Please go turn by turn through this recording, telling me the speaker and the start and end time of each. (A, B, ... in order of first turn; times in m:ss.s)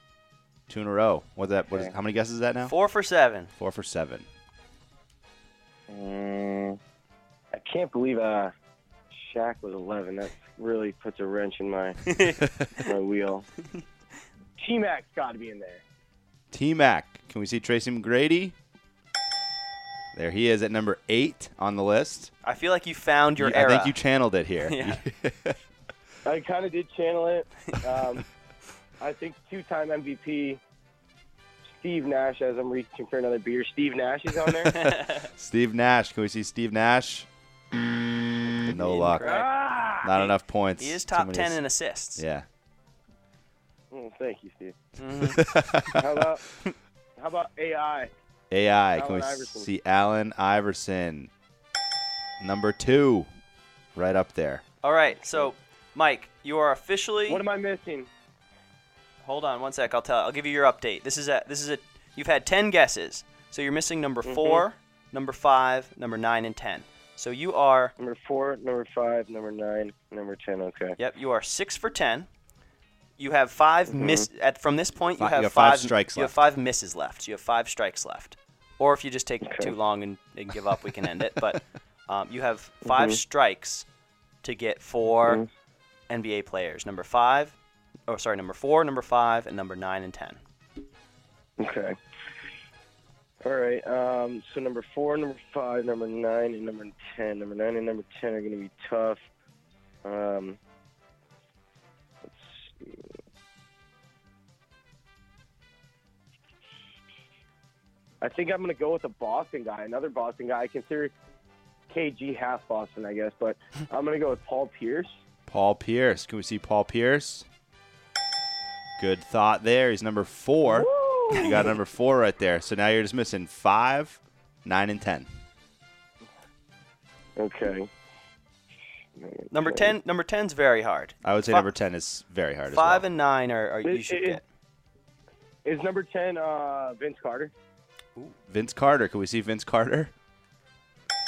0:00.7-0:02.7 A
0:02.7-0:03.5 B
0:03.6-0:04.3 A
0:05.9-0:06.8 C
0:07.5-0:08.5 C
0:09.1-0:12.1 C
0:12.1-0:12.9 B
0:12.8-0:13.5 C
0:14.6-0:15.8 C
0:16.5-0:18.6 A
0:20.1-0:22.3 A
0:22.4-0:24.0 B
0:23.4-0:25.6 A
0:24.7-0:25.0 B
0:26.2-0:28.2 C
0:29.0-0:30.6 C
0:31.7-0:34.8 C
0:34.7-0:35.3 B
0:35.3-0:37.3 A
0:38.6-0:39.2 A
0:38.7-0:39.5 B
0:39.2-0:40.1 C
0:40.0-0:41.6 A
0:40.1-0:42.2 B
0:42.2-0:42.5 A
0:43.9-0:44.8 C
0:45.0-0:45.4 B
0:45.2-0:46.0 A
0:46.0-0:46.4 C
0:47.2-0:48.1 C
0:48.5-0:51.3 A
0:49.0-0:49.7 C
0:52.4-0:53.3 A
0:54.0-0:54.6 A
0:54.8-0:57.4 B
0:57.3-0:58.1 C
0:59.2-1:07.9 B
1:04.2-1:04.6 C
1:08.0-1:11.0 C
1:11.0-1:12.3 B
1:13.2-1:23.8 B
1:13.9-1:14.3 C
1:15.2-1:16.3 A
1:19.4-1:19.8 C
1:22.8-1:23.2 C
1:24.4-1:25.4 B
1:26.1-1:27.6 B
1:28.1-1:30.4 B
1:31.6-1:32.0 C
1:33.4-1:39.2 C
1:40.0-1:40.6 C
1:42.2-1:43.1 C
1:48.2-1:51.1 C
1:51.9-1:55.1 C
1:55.5-1:57.5 A
1:59.0-2:05.3 A
2:00.7-2:01.7 C
2:07.4-2:07.9 C
2:09.2-2:10.0 C
2:09.5-2:11.7 B
2:11.2-2:13.0 A
2:12.7-2:14.4 B
2:13.8-2:14.4 C
2:15.6-2:17.5 C
2:18.5-2:20.1 A